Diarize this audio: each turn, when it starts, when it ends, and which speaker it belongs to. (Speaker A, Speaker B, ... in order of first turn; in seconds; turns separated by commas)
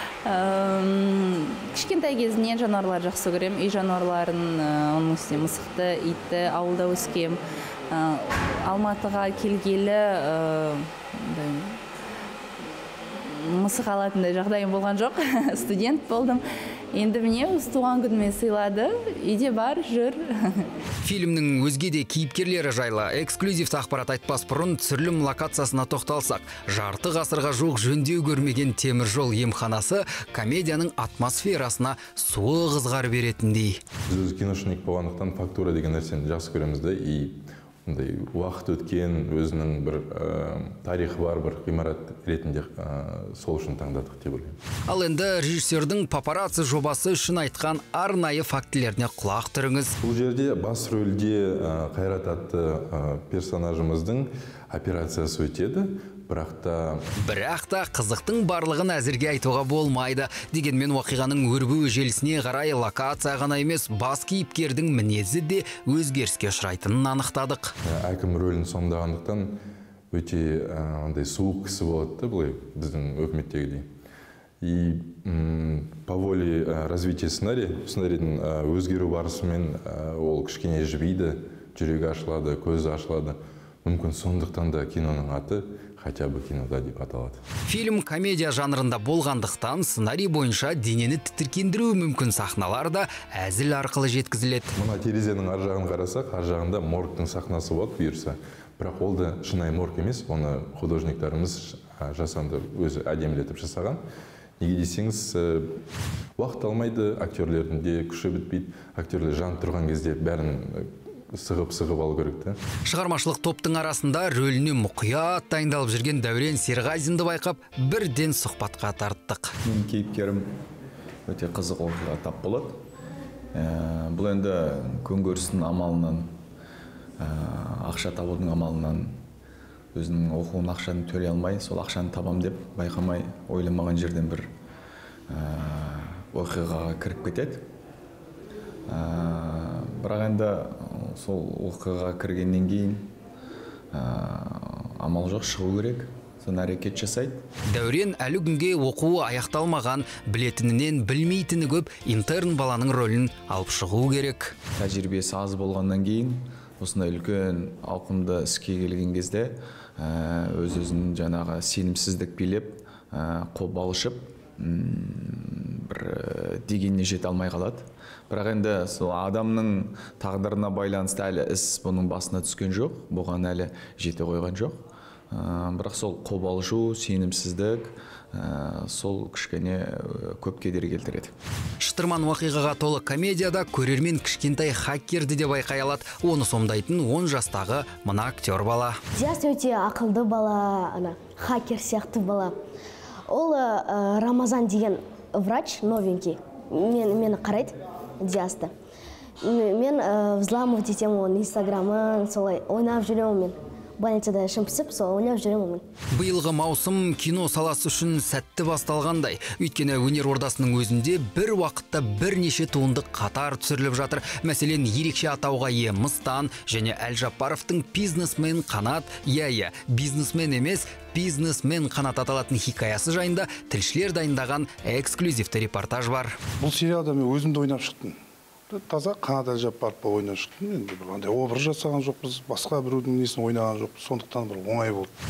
Speaker A: 0.2-11.8, Speaker A: 13.2-20.7, Speaker B: 21.0-33.8, Speaker C: 34.1-44.6, Speaker B: 44.9-49.9, Speaker C: 50.0-57.1, Speaker B: 57.2-67.7, Speaker C: 67.8-69.5, Speaker C: 70.1-73.9, Speaker C: 74.6-87.4, Speaker B: 87.7-94.7, Speaker C: 94.7-104.0, Speaker C: 104.6-105.8, Speaker C: 106.4-112.6, Speaker B: 112.9-119.5, Speaker D: 119.6-120.5, Speaker D: 121.3-122.8, Speaker D: 123.5-126.3, Speaker D: 127.2-129.2, Speaker D: 129.9-134.5, Speaker D: 135.3-137.7, Speaker D: 138.9-143.1, Speaker D: 143.9-147.4, Speaker B: 147.7-154.5, Speaker D: 154.8-181.3, Speaker B: 181.8-189.0, Speaker E: 189.1-192.6, Speaker E: 193.3-198.7, Speaker E: 199.4-205.8, Speaker B: 206.1-226.4, Speaker F: 226.6-228.2, Speaker F: 228.7-235.1